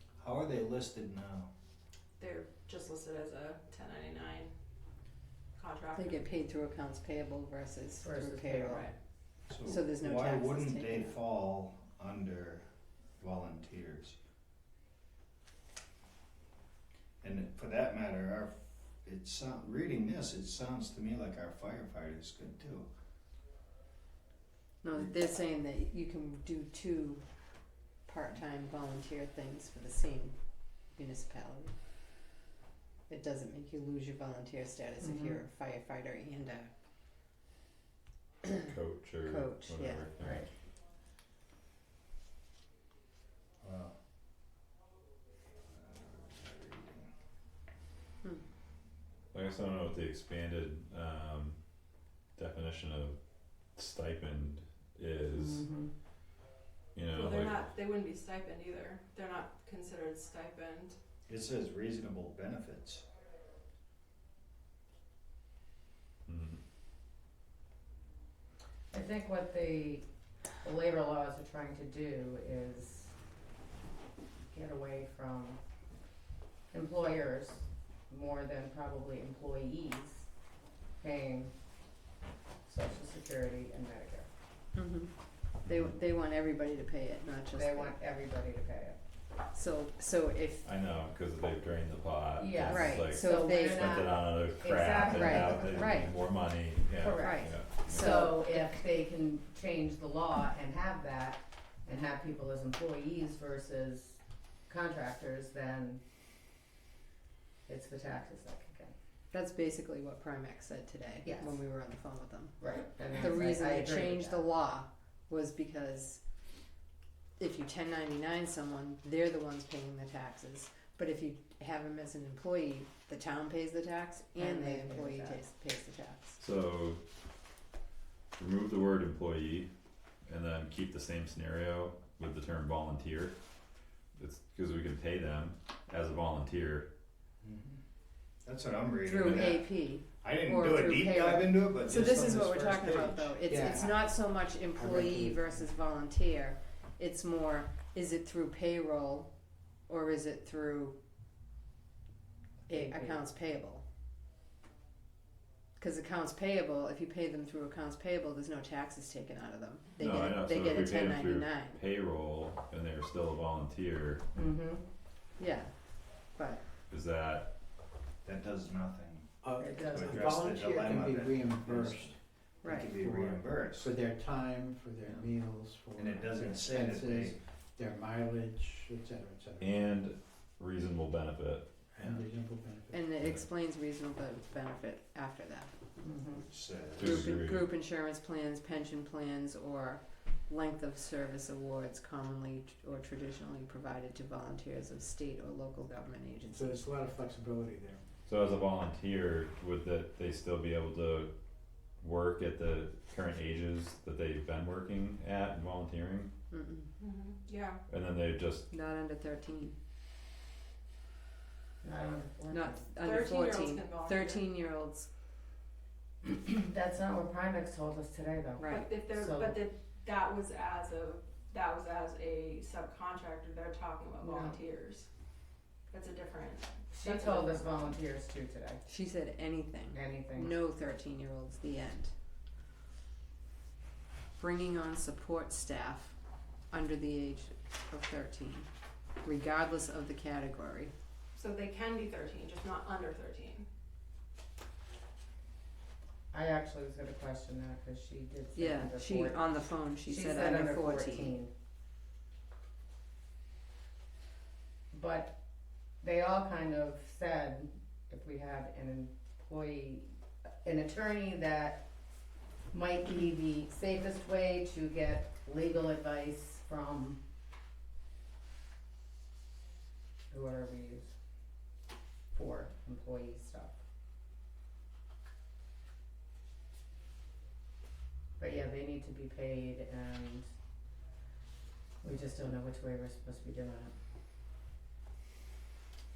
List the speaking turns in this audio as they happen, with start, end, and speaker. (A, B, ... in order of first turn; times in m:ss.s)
0:00.2-0:01.5 A
0:02.2-0:04.5 B
0:05.6-0:06.2 B
0:06.0-0:08.8 C
0:08.0-0:08.9 D
0:09.5-0:12.7 A
0:09.7-0:11.2 C
0:13.2-0:14.2 A
0:17.2-0:22.9 A
0:24.8-0:27.2 C
0:28.1-0:30.4 C
0:30.9-0:31.7 C
0:33.1-0:36.7 C
0:35.0-0:35.4 D
0:38.5-0:40.4 E
0:39.2-0:40.1 C
0:40.2-0:40.5 D
0:43.6-0:43.9 A
0:45.7-0:47.1 A
0:49.3-0:51.6 E
0:52.4-0:53.2 E
0:53.8-0:55.6 E
0:55.3-0:55.9 D
0:57.0-0:57.6 E
0:57.1-1:01.0 B
1:01.3-1:03.0 A
1:06.3-1:06.6 E
1:08.9-1:10.1 D
1:10.6-1:13.2 D
1:14.5-1:15.6 D
1:16.7-1:20.3 D
1:21.0-1:21.5 D
1:22.7-1:24.3 D
1:24.8-1:25.1 C
1:25.7-1:26.0 E
1:25.7-1:27.9 C
1:27.6-1:29.0 D
1:29.5-1:30.6 C
1:30.6-1:38.2 E
1:32.4-1:36.1 D
1:32.7-1:33.8 C
1:35.1-1:36.1 C
1:37.0-1:46.0 D
1:37.2-1:38.6 C
1:47.7-1:48.9 D
1:49.3-1:56.2 C
1:51.2-1:51.6 D
1:52.6-1:54.5 D
1:57.4-2:06.4 C
2:04.4-2:05.4 D
2:06.4-2:07.0 E
2:08.4-2:09.7 E
2:10.3-2:13.4 E
2:14.2-2:16.9 E
2:17.4-2:17.8 A
2:18.4-2:23.9 A
2:19.0-2:29.3 C
2:21.9-2:22.5 F
2:23.4-2:24.2 F
2:24.8-2:25.6 F
2:29.9-2:31.0 C
2:32.7-2:33.2 D
2:32.7-2:33.8 C
2:35.8-2:41.8 C
2:39.9-2:44.2 E
2:44.4-2:44.8 D
2:45.4-2:45.7 C
2:46.4-2:46.6 C
2:46.9-2:47.5 E
2:48.2-2:49.3 A
2:49.4-2:52.2 F
2:49.6-2:50.3 D
2:49.8-2:53.9 A
2:52.6-2:52.9 C
2:52.9-2:59.8 F
2:56.0-2:57.4 A
2:59.6-3:01.7 E
3:02.0-3:03.1 F
3:02.9-3:05.7 C
3:03.2-3:03.5 E
3:06.0-3:06.4 D
3:06.4-3:07.3 A
3:07.0-3:07.7 E
3:07.0-3:16.8 C
3:16.5-3:18.0 F
3:18.3-3:21.3 E
3:22.0-3:26.3 E
3:26.5-3:26.9 C
3:27.0-3:27.8 B
3:27.9-3:28.7 E
3:28.7-3:29.8 C
3:31.8-3:32.9 D
3:32.5-3:35.1 C
3:33.0-3:34.5 B
3:36.2-3:39.6 D
3:38.6-3:38.9 C
3:38.7-3:45.1 B
3:44.2-3:44.6 D
3:45.9-3:47.9 B
3:46.9-3:48.8 D
3:48.9-3:52.1 C
3:49.9-3:50.6 D
3:54.4-3:56.2 C
3:56.7-3:58.7 C
3:59.2-4:00.9 C
4:01.4-4:03.7 B
4:06.3-4:09.5 D
4:08.6-4:11.3 C
4:10.0-4:11.5 D
4:14.9-4:15.4 D
4:16.0-4:20.1 D
4:20.6-4:21.8 D
4:22.7-4:27.2 D
4:30.3-4:31.2 D
4:32.3-4:33.8 D
4:38.4-4:40.5 D
4:42.0-4:43.9 D